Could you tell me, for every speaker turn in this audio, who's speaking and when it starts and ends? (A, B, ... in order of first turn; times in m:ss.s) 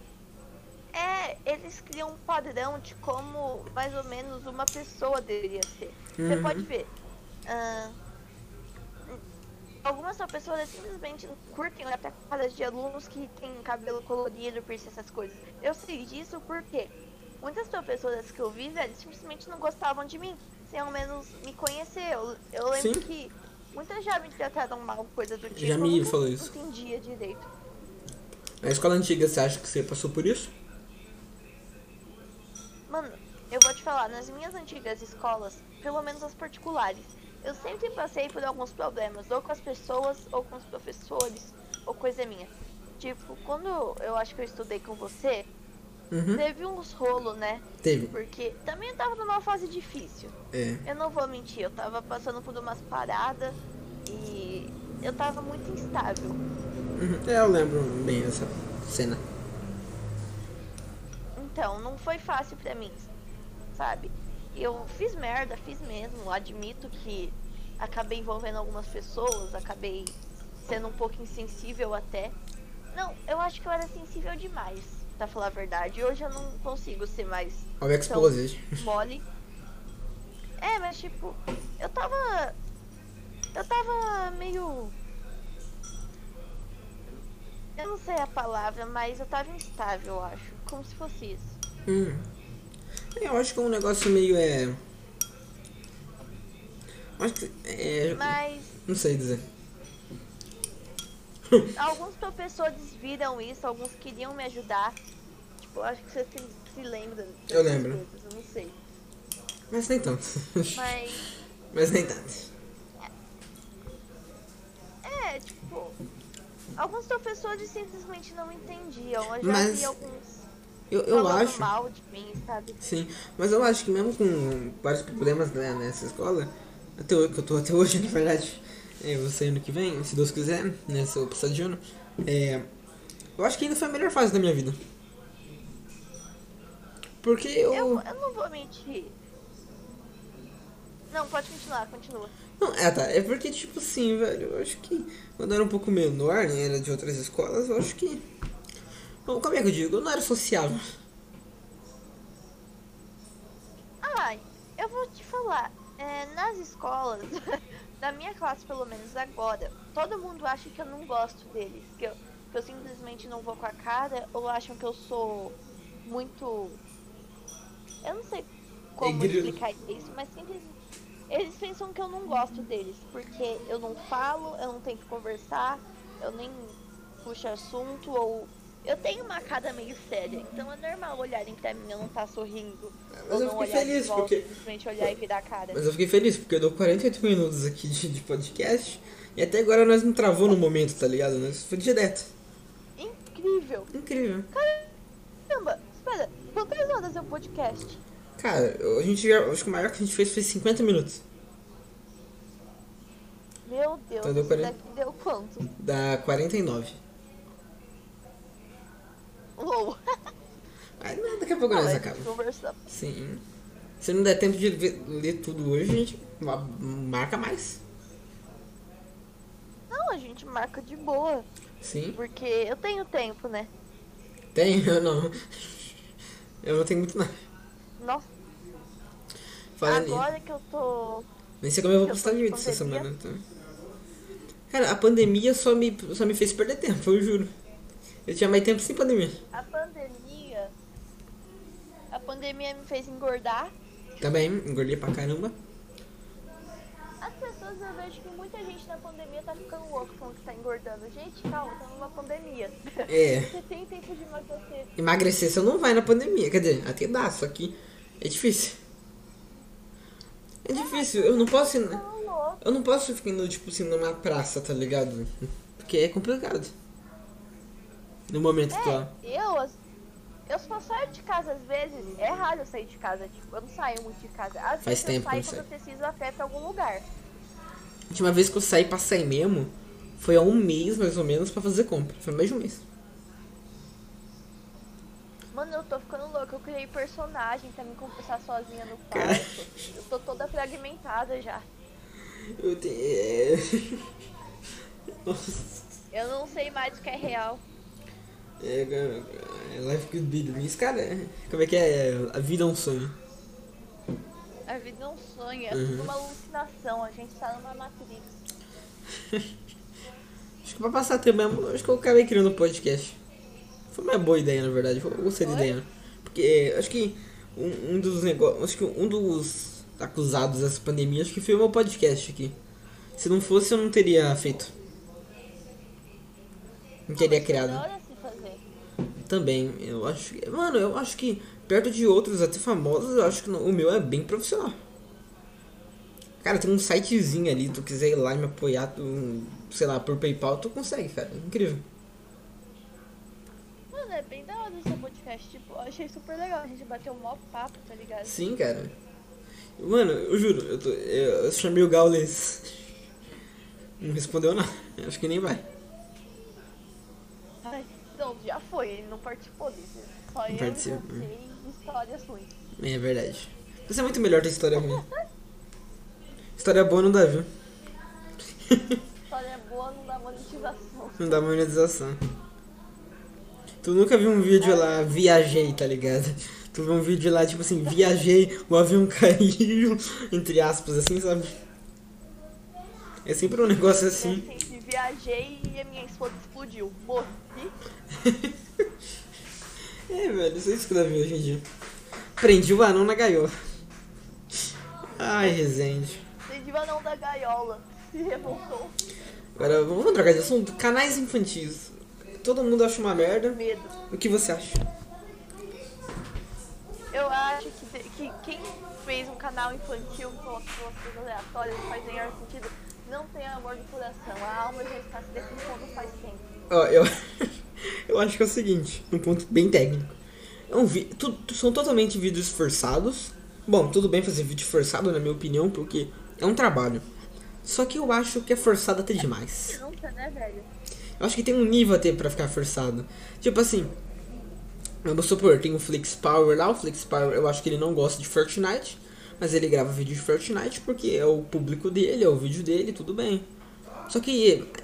0:00.9-0:06.9 A
0:06.2-0:06.7 B
0:07.4-0:08.0 A
0:09.8-0:27.5 A
0:22.7-0:23.0 B
0:25.5-0:26.5 B
0:28.6-0:30.5 B
0:32.9-0:45.5 A
0:46.1-0:46.4 B
0:46.3-0:56.4 A
0:47.8-0:48.1 B
0:50.5-0:50.8 B
0:56.9-0:59.2 B
1:01.4-1:03.1 A
1:03.7-1:12.4 A
1:12.9-1:19.2 A
1:17.8-1:18.8 B
1:20.6-1:22.6 A
1:23.5-1:24.9 A
1:27.8-1:31.6 A
1:31.8-1:32.3 B
1:33.1-1:34.8 B
1:37.2-1:39.4 B
1:38.1-1:38.7 A
1:41.7-1:45.0 A
1:45.6-1:48.8 A
1:47.5-1:48.0 B
1:49.7-1:50.9 B
1:50.7-1:51.2 A
1:51.7-1:52.5 B
1:55.0-1:56.0 A
1:56.8-2:00.4 A
1:59.4-2:00.0 B
2:00.9-2:01.7 B
2:01.1-2:02.8 A
2:02.8-2:12.7 B
2:13.4-2:14.8 B
2:17.2-2:18.0 B
2:17.7-2:19.1 A
2:21.1-2:22.3 A
2:22.6-2:28.2 B
2:29.2-2:30.9 B
2:34.0-2:46.8 A
2:48.0-2:50.8 A
2:49.0-2:49.6 B
2:51.3-3:05.8 A
3:03.1-3:04.4 B
3:05.7-3:12.3 B
3:13.0-3:13.9 A
3:13.9-3:14.5 B
3:14.5-3:14.9 A
3:15.5-3:18.0 A
3:18.4-3:21.2 B
3:23.6-3:25.7 A
3:24.2-3:24.7 B
3:25.8-3:27.0 B
3:29.6-3:30.0 A
3:31.0-3:32.3 B
3:31.7-3:32.8 A
3:32.9-3:33.4 B
3:34.0-3:37.8 B
3:39.9-3:41.5 A
3:41.8-3:42.2 B
3:42.1-3:43.7 A
3:44.5-3:45.9 B
3:46.6-3:47.4 B
3:48.0-3:48.3 A
3:49.8-3:50.3 B
3:49.8-3:51.3 A
3:51.6-3:53.4 B
3:52.0-3:53.1 A
3:54.7-3:57.5 B
3:58.2-3:59.4 B
3:59.5-4:00.7 A
4:02.1-4:03.7 A
4:04.2-4:05.6 B
4:07.2-4:14.9 A
4:13.1-4:13.5 B
4:15.0-4:18.8 B
4:20.6-4:22.0 B
4:20.7-4:22.6 A
4:22.6-4:26.7 B
4:28.3-4:29.1 B
4:28.7-4:29.8 A
4:30.5-4:37.1 A
4:34.8-4:35.6 B
4:38.1-4:42.8 B
4:45.5-4:51.6 A
4:49.1-4:49.5 B
4:52.6-4:54.1 B
4:55.2-4:56.0 B
4:56.1-4:57.6 A
4:58.6-5:03.2 B
5:04.7-5:08.4 A
5:05.7-5:06.1 B
5:09.2-5:09.5 B
5:10.6-5:13.2 B
5:13.9-5:22.6 B
5:15.4-5:15.7 A
5:23.2-5:24.7 B
5:27.1-5:27.8 B
5:27.2-5:28.6 A
5:29.2-5:34.8 B
5:36.4-5:41.8 B
5:43.9-5:48.4 A
5:48.2-5:48.9 B
5:49.8-5:52.8 B
5:54.0-5:55.6 B
5:57.6-6:02.5 A
6:00.5-6:01.3 B
6:02.8-6:05.0 B
6:04.8-6:05.1 A
6:06.6-6:07.5 B
6:08.6-6:09.0 B
6:09.3-6:11.5 A
6:11.2-6:12.2 B
6:13.8-6:21.6 B
6:14.6-6:15.2 A
6:23.2-6:24.4 B
6:23.9-6:27.7 A
6:28.1-6:28.5 B
6:30.1-6:31.6 B
6:32.4-6:33.5 B
6:35.2-6:36.2 B
6:36.4-6:39.0 A
6:39.6-6:43.6 B
6:43.4-6:43.9 A
6:44.1-6:44.8 B
6:47.1-6:56.5 A
6:56.7-7:00.2 B
7:00.7-7:07.0 B
7:07.6-7:09.8 B
7:09.7-7:10.7 A
7:11.2-7:13.9 B
7:15.0-7:23.5 B
7:24.1-7:24.7 B